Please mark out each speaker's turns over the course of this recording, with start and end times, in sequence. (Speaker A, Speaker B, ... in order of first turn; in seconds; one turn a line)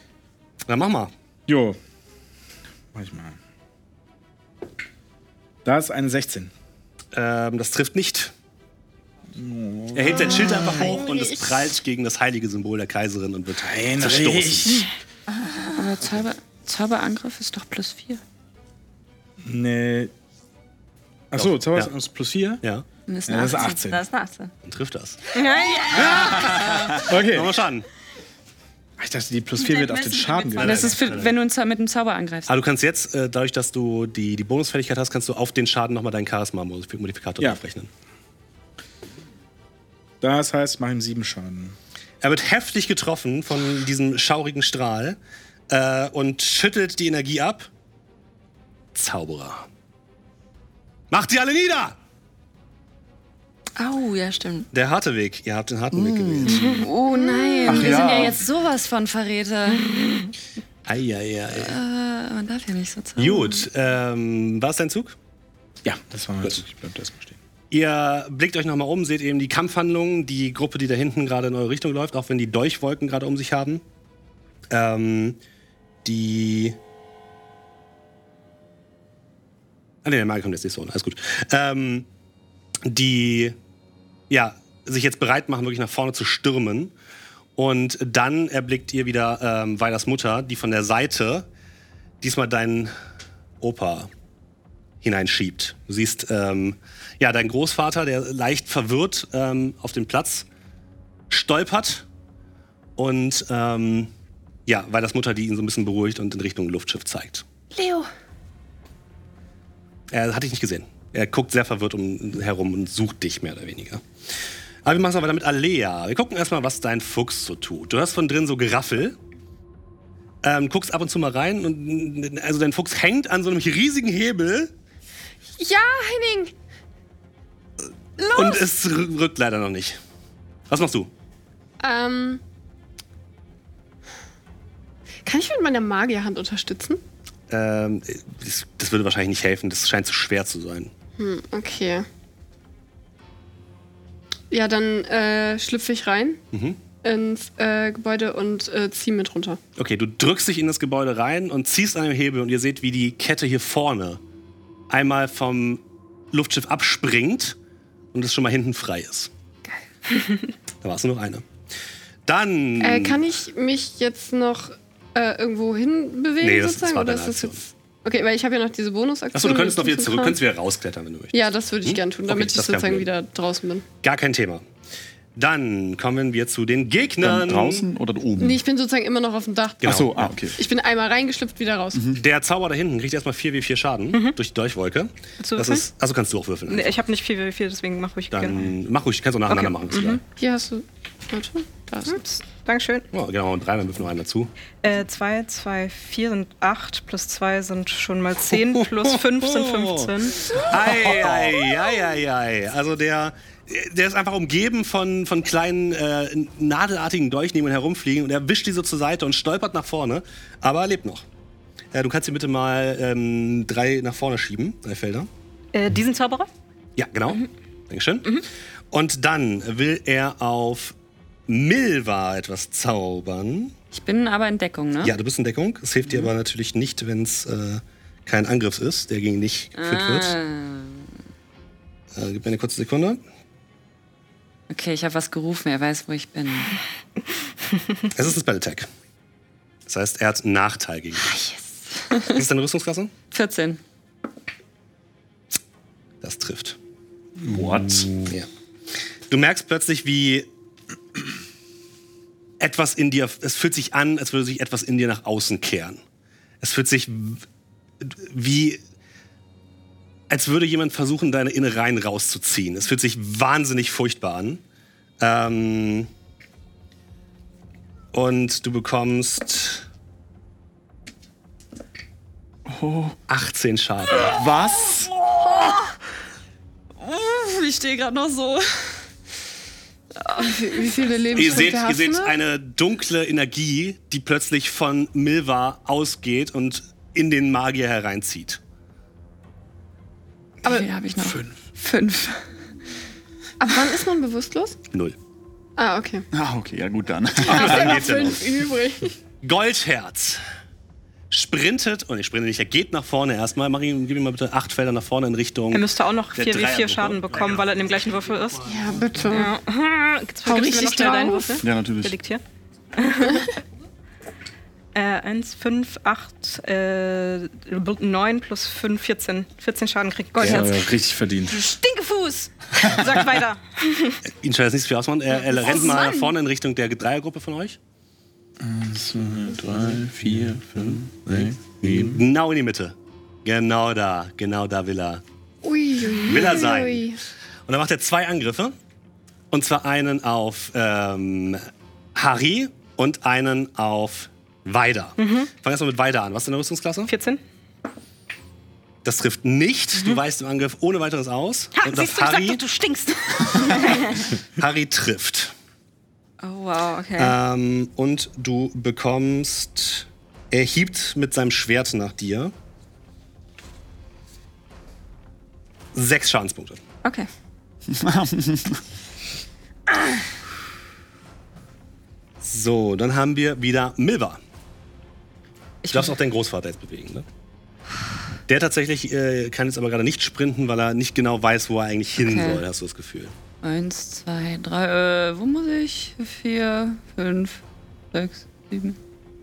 Speaker A: 0.7-1.1
Speaker B: 1.5-1.8
Speaker B: 2.9-3.4
Speaker B: 5.7-6.5
Speaker A: 7.1-8.3
Speaker B: 9.3-11.0
Speaker A: 9.9-14.9
Speaker C: 10.5-11.4
Speaker B: 13.6-14.9
Speaker D: 15.8-18.2
Speaker B: 19.4-20.1
Speaker B: 21.3-22.6
Speaker A: 21.4-21.9
Speaker D: 23.1-23.8
Speaker B: 23.3-24.0
Speaker E: 23.8-24.5
Speaker A: 24.7-25.2
Speaker E: 25.3-26.5
Speaker A: 25.9-27.9
Speaker B: 26.9-27.6
Speaker B: 29.0-31.0
Speaker E: 29.6-31.0
Speaker D: 30.6-32.6
Speaker A: 30.6-31.3
Speaker A: 32.5-37.9
Speaker B: 40.2-41.8
Speaker A: 42.2-45.2
Speaker A: 45.7-47.7
Speaker A: 49.0-49.7
Speaker A: 51.1-52.0
Speaker E: 53.8-54.7
Speaker A: 54.7-56.9
Speaker F: 55.9-56.7
Speaker D: 56.8-59.9
Speaker F: 57.6-58.4
Speaker A: 60.9-61.8
Speaker D: 61.5-63.7
Speaker A: 63.2-65.2
Speaker B: 65.8-67.4
Speaker A: 67.7-73.8
Speaker A: 74.7-75.4
Speaker A: 76.0-76.8
Speaker A: 80.0-82.1
Speaker A: 82.8-83.6
Speaker A: 84.3-86.9
Speaker A: 87.6-91.5
Speaker A: 92.2-92.9
Speaker A: 93.6-94.1
Speaker A: 95.0-100.5
Speaker A: 101.3-102.0
Speaker A: 103.0-104.1
Speaker A: 104.7-107.5
Speaker D: 107.7-108.1
Speaker A: 110.1-114.0
Speaker A: 114.8-119.2
Speaker A: 120.4-124.7
Speaker C: 125.6-126.5
Speaker C: 128.2-128.7
Speaker A: 128.3-130.0
Speaker A: 130.7-131.1
Speaker C: 131.8-132.4
Speaker C: 135.2-137.0
Speaker A: 137.5-140.9
Speaker C: 141.2-142.1
Speaker C: 144.5-146.4
Speaker A: 146.5-146.8
Speaker C: 147.0-149.6
Speaker A: 149.8-154.2
Speaker A: 154.9-155.8
Speaker A: 156.3-157.6
Speaker A: 158.1-159.3
Speaker A: 160.8-161.5
Speaker A: 162.3-163.2
Speaker C: 162.8-170.4
Speaker A: 166.4-167.6
Speaker A: 169.3-173.1
Speaker C: 171.3-173.8
Speaker A: 174.0-174.6
Speaker A: 175.4-177.9
Speaker F: 177.2-178.6
Speaker C: 178.4-180.0
Speaker A: 179.8-180.3
Speaker F: 179.8-180.6
Speaker C: 180.6-182.1
Speaker F: 181.9-182.2
Speaker A: 182.2-187.0
Speaker G: 185.4-185.9
Speaker G: 186.7-188.6
Speaker A: 188.3-190.2
Speaker G: 189.5-190.2
Speaker C: 190.4-192.2
Speaker G: 192.1-193.1
Speaker A: 193.1-194.5
Speaker G: 194.8-200.6
Speaker A: 198.5-211.2
Speaker A: 211.9-215.3
Speaker G: 215.7-216.5
Speaker A: 217.0-220.9
Speaker A: 221.5-223.7
Speaker D: 223.9-225.1
Speaker A: 225.0-230.3
Speaker D: 229.8-231.1
Speaker A: 232.1-233.2
Speaker D: 234.7-236.8
Speaker A: 238.1-238.9
Speaker A: 239.9-241.3
Speaker D: 241.2-242.4
Speaker A: 242.3-243.1
Speaker D: 243.3-243.8
Speaker A: 246.2-246.8
Speaker B: 247.4-247.9
Speaker F: 247.5-248.3
Speaker A: 247.8-248.5
Speaker A: 249.3-250.5
Speaker A: 252.6-256.0
Speaker A: 256.6-257.4
Speaker A: 258.0-258.8
Speaker A: 260.3-264.6
Speaker A: 265.2-266.1
Speaker A: 268.1-269.9
Speaker F: 272.7-273.2
Speaker A: 273.3-274.4
Speaker F: 274.2-275.1
Speaker D: 275.2-275.8
Speaker D: 277.0-279.0
Speaker D: 280.2-280.5
Speaker C: 280.4-282.4
Speaker A: 281.3-288.6
Speaker D: 290.6-292.4
Speaker C: 293.6-294.8
Speaker C: 295.8-296.3
Speaker F: 296.3-298.2
Speaker A: 297.4-298.5
Speaker C: 297.5-299.1
Speaker A: 299.4-300.4
Speaker A: 301.3-309.4
Speaker G: 305.7-308.7
Speaker C: 308.6-309.6
Speaker G: 309.3-312.4
Speaker C: 310.4-311.6
Speaker F: 311.6-312.2
Speaker G: 313.0-313.4
Speaker G: 314.9-320.9
Speaker B: 320.4-321.6
Speaker A: 320.4-320.7
Speaker G: 321.5-324.2
Speaker A: 324.4-327.8
Speaker E: 325.6-326.3
Speaker B: 328.6-332.2
Speaker A: 331.3-335.2
Speaker C: 335.6-337.2
Speaker A: 336.2-337.1
Speaker A: 337.7-338.8
Speaker A: 339.5-347.1
Speaker G: 345.2-345.5
Speaker G: 347.1-347.4
Speaker A: 349.0-352.6
Speaker G: 351.8-353.7
Speaker A: 353.5-355.5
Speaker E: 353.6-354.1
Speaker E: 356.4-357.4
Speaker A: 357.2-362.5
Speaker A: 365.9-366.8
Speaker F: 367.9-368.8
Speaker A: 372.4-374.4
Speaker D: 375.8-376.1
Speaker A: 375.9-377.3
Speaker A: 378.5-383.3
Speaker D: 382.2-382.6
Speaker D: 383.6-389.0